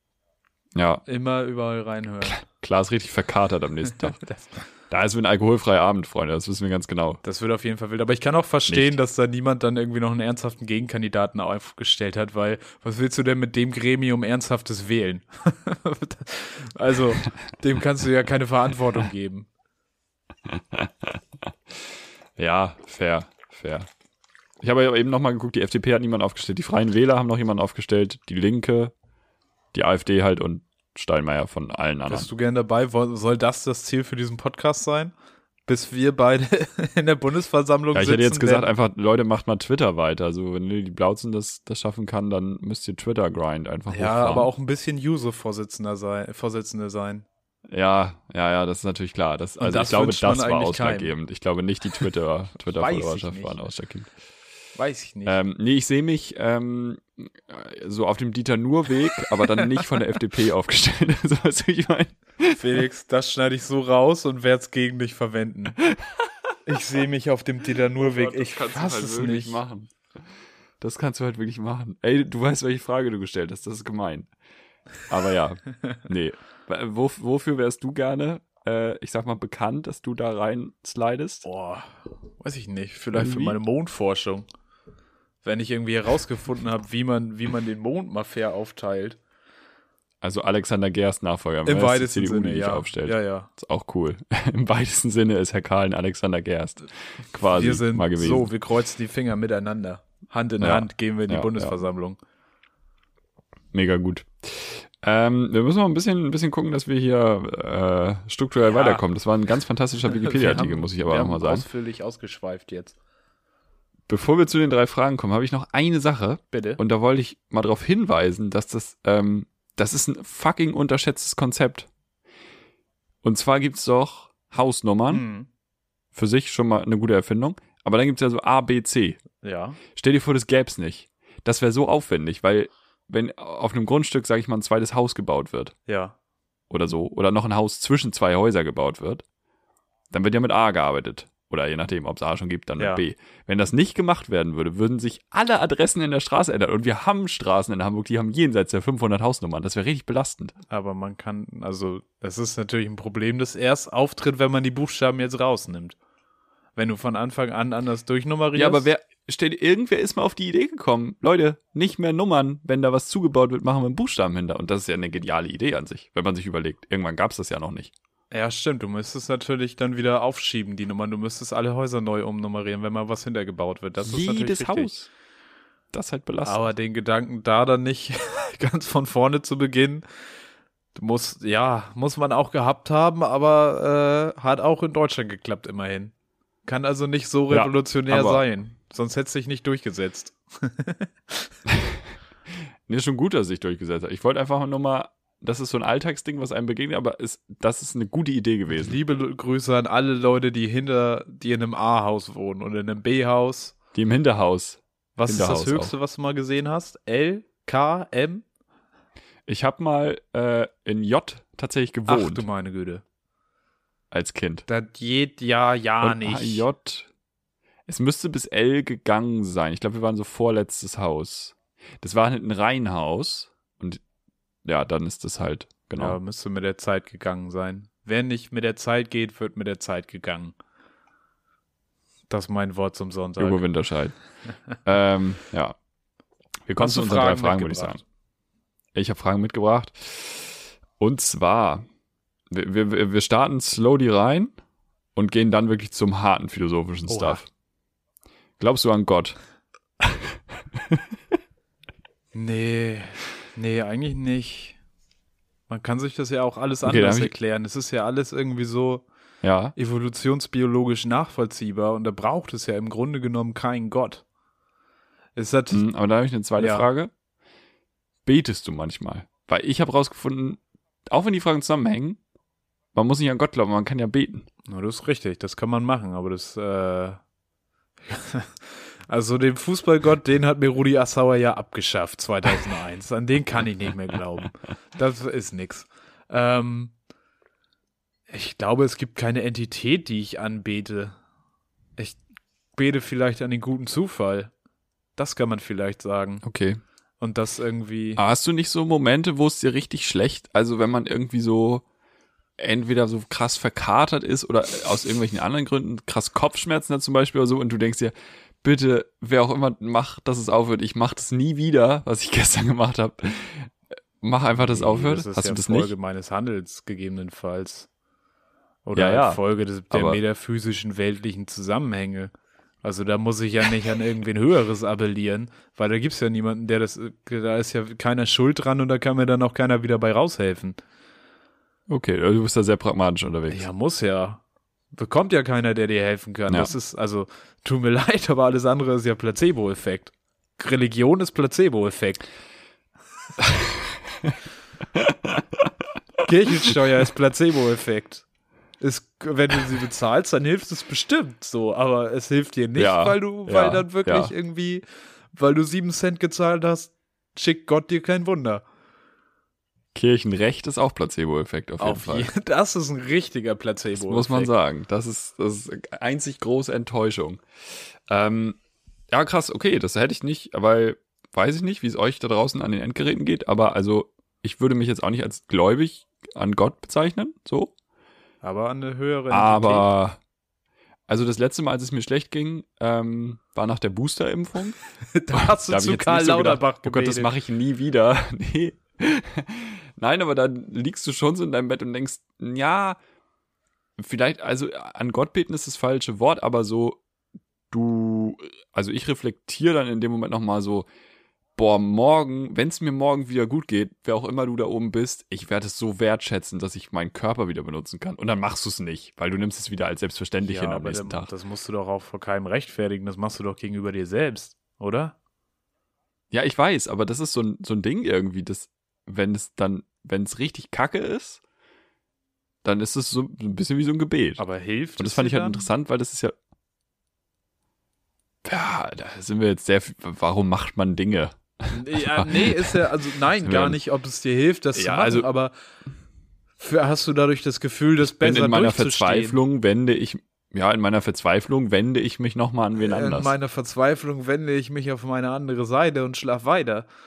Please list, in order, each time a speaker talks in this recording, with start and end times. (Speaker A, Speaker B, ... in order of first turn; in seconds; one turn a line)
Speaker A: 0.8-1.0
Speaker B: 1.1-2.4
Speaker A: 2.2-4.2
Speaker B: 4.2-4.6
Speaker A: 4.9-7.2
Speaker B: 7.2-19.5
Speaker A: 8.7-9.0
Speaker A: 20.5-21.2
Speaker A: 22.4-23.9
Speaker A: 24.6-28.9
Speaker A: 29.7-32.3
Speaker B: 32.1-35.1
Speaker B: 35.7-38.7
Speaker A: 37.9-44.5
Speaker B: 43.9-47.2
Speaker A: 47.7-54.1
Speaker B: 49.6-51.1
Speaker B: 52.6-53.7
Speaker B: 54.8-55.4
Speaker A: 55.2-62.8
Speaker B: 59.6-59.8
Speaker B: 62.5-65.8
Speaker B: 66.7-69.6
Speaker A: 68.0-69.9
Speaker A: 70.8-74.3
Speaker A: 75.1-81.5
Speaker B: 81.5-84.5
Speaker A: 83.1-83.6
Speaker B: 85.4-89.2
Speaker A: 90.2-98.5
Speaker B: 91.7-93.5
Speaker B: 97.4-102.2
Speaker A: 100.6-101.8
Speaker A: 103.7-111.7
Speaker B: 108.7-109.0
Speaker B: 110.1-113.0
Speaker A: 114.1-121.9
Speaker B: 116.5-116.8
Speaker A: 123.2-125.2
Speaker B: 125.1-125.5
Speaker A: 126.1-129.2
Speaker B: 129.4-129.8
Speaker A: 129.9-135.8
Speaker B: 135.9-136.2
Speaker A: 136.7-139.2
Speaker A: 140.1-150.6
Speaker B: 142.8-143.0
Speaker B: 150.7-156.0
Speaker B: 156.8-158.9
Speaker A: 158.6-167.9
Speaker B: 168.3-174.9
Speaker A: 174.0-175.1
Speaker A: 175.9-176.7
Speaker B: 176.4-180.0
Speaker B: 180.9-186.1
Speaker B: 186.7-191.5
Speaker A: 187.5-188.4
Speaker A: 191.7-192.0
Speaker A: 192.9-199.0
Speaker B: 198.7-203.8
Speaker A: 203.9-205.9
Speaker B: 205.2-208.4
Speaker A: 209.5-212.5
Speaker B: 212.1-213.0
Speaker A: 214.1-214.7
Speaker B: 214.7-216.7
Speaker A: 216.0-217.1
Speaker A: 217.9-224.0
Speaker A: 224.7-226.2
Speaker B: 226.0-230.6
Speaker B: 232.3-233.6
Speaker A: 233.4-234.2
Speaker A: 234.8-235.8
Speaker A: 236.7-238.0
Speaker B: 236.8-238.0
Speaker A: 238.9-241.8
Speaker A: 242.5-244.5
Speaker A: 245.2-247.5
Speaker B: 247.1-247.4
Speaker A: 248.6-249.4
Speaker A: 250.0-250.3
Speaker B: 252.3-254.8
Speaker B: 255.7-259.1
Speaker A: 256.8-257.3
Speaker A: 259.4-259.8
Speaker B: 259.8-264.2
Speaker B: 265.4-265.8
Speaker A: 265.7-267.1
Speaker B: 266.6-266.9
Speaker A: 268.3-272.2
Speaker A: 272.9-274.5
Speaker B: 274.7-277.2
Speaker B: 278.1-286.9
Speaker B: 288.3-291.1
Speaker B: 292.8-294.5
Speaker B: 295.2-296.4
Speaker A: 296.4-296.8
Speaker B: 297.2-298.2
Speaker A: 298.2-301.8
Speaker A: 302.6-315.9
Speaker B: 314.6-317.9
Speaker B: 318.9-322.3
Speaker A: 318.9-320.2
Speaker B: 322.8-330.8
Speaker A: 331.9-333.7
Speaker B: 333.5-334.4
Speaker B: 334.9-342.3
Speaker A: 343.4-344.4
Speaker A: 344.9-345.7
Speaker B: 346.2-348.2
Speaker B: 348.8-354.8
Speaker A: 352.8-354.3
Speaker B: 355.3-358.6
Speaker A: 359.9-362.3
Speaker B: 361.8-364.5
Speaker A: 364.0-367.4
Speaker A: 368.1-368.6
Speaker A: 369.1-377.7
Speaker B: 378.4-379.9
Speaker A: 379.3-380.2
Speaker A: 381.1-384.8
Speaker B: 385.1-387.3
Speaker A: 385.3-393.0
Speaker A: 394.0-397.0
Speaker A: 397.7-400.9
Speaker A: 401.6-411.3
Speaker B: 410.4-415.1
Speaker A: 416.3-421.4
Speaker A: 422.6-424.4
Speaker B: 424.4-425.7
Speaker A: 425.0-426.4
Speaker A: 428.4-433.8
Speaker B: 431.7-435.5
Speaker A: 434.7-435.3
Speaker B: 436.6-439.4
Speaker A: 438.0-443.4
Speaker B: 442.8-446.9